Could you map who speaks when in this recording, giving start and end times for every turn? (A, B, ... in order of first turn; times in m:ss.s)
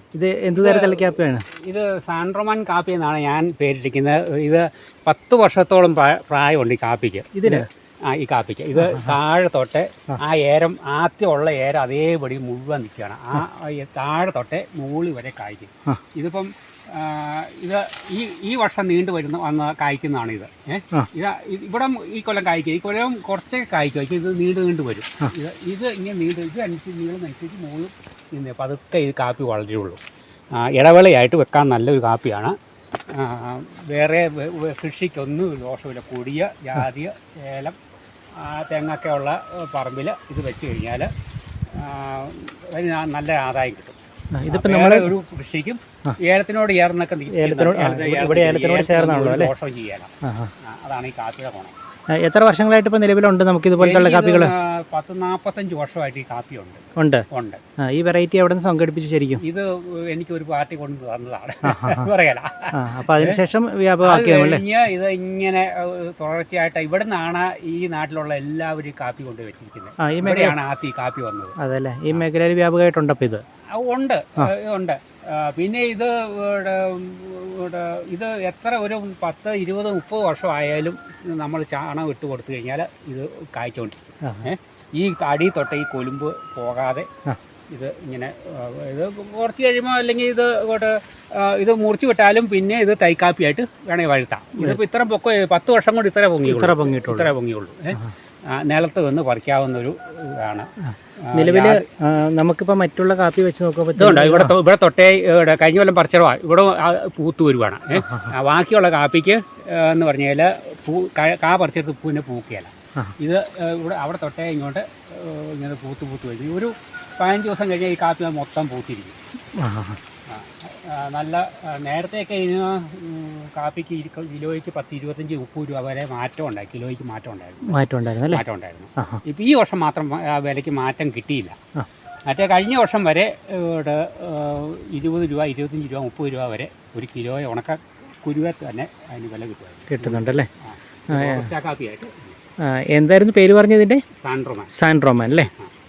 0:00.2-0:01.4 A
0:00.5-0:30.0 B
0:07.4-0:07.7 A
0:30.5-0:32.6 B
0:33.1-0:37.8 B
0:38.4-0:41.1 B
0:41.7-0:44.0 B
0:44.4-0:45.1 A
0:44.5-0:51.7 B
0:47.3-0:49.5 A
0:50.2-0:50.5 A
0:52.1-0:54.5 A
0:53.8-0:57.6 B
0:57.0-0:57.2 A
0:57.8-0:59.4 A
0:59.4-1:03.4 B
1:01.7-1:02.1 A
1:02.7-1:04.6 A
1:04.0-1:11.6 B
1:10.0-1:10.6 A
1:11.6-1:13.4 A
1:13.7-1:27.1 B
1:27.7-1:41.9 B
1:36.5-1:37.3 A
1:41.4-1:44.5 A
1:44.0-1:59.2 B
1:48.0-1:48.3 A
1:59.6-2:00.0 A
2:00.3-2:11.6 B
2:07.7-2:08.4 A
2:12.3-2:22.4 B
2:19.9-2:20.5 A
2:21.1-2:21.5 A
2:22.6-2:24.0 A
2:24.1-2:24.7 B
2:24.7-2:25.5 A